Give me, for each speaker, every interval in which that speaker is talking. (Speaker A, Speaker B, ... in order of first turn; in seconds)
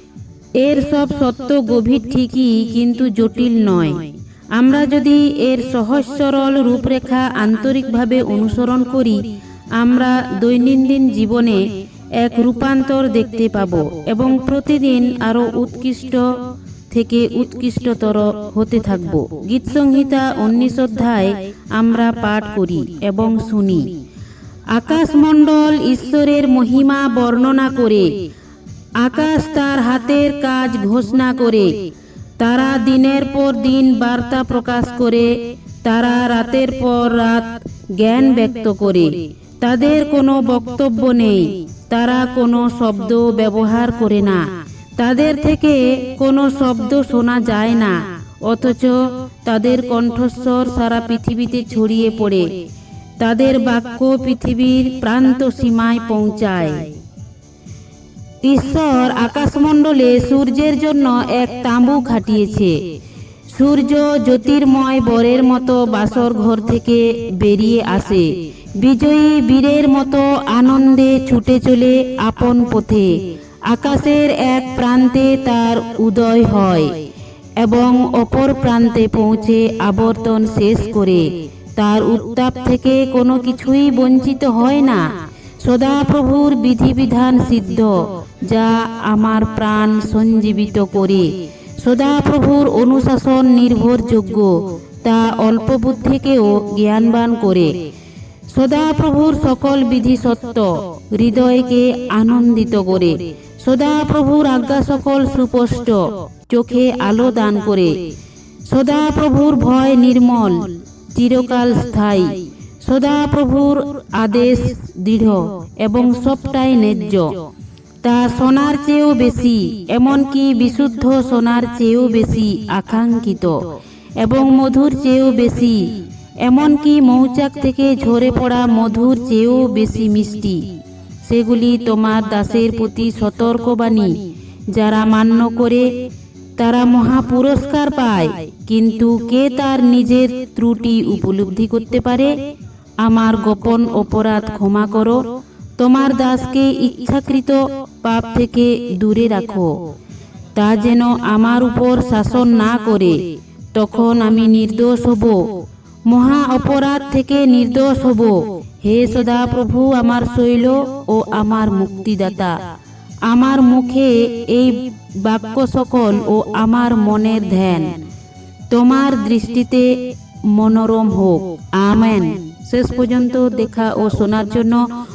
Speaker A: 0.6-9.2, 9.8-11.6, 12.2-16.3, 16.9-23.9, 24.7-28.1, 29.0-31.7, 32.4-52.5, 53.2-56.9, 58.4-62.8, 63.5-68.3, 68.8-73.1, 73.7-77.0, 77.6-85.0, 85.6-97.7, 98.5-107.9, 108.7-117.4, 118.0-123.6, 124.2-130.7, 131.2-134.2, 134.7-135.9, 136.6-142.3, 143.0-145.2, 145.8-149.8, 150.6-153.2, 153.7-155.5, 156.1-162.6, 163.3-168.0, 168.7-169.9, 170.5-174.8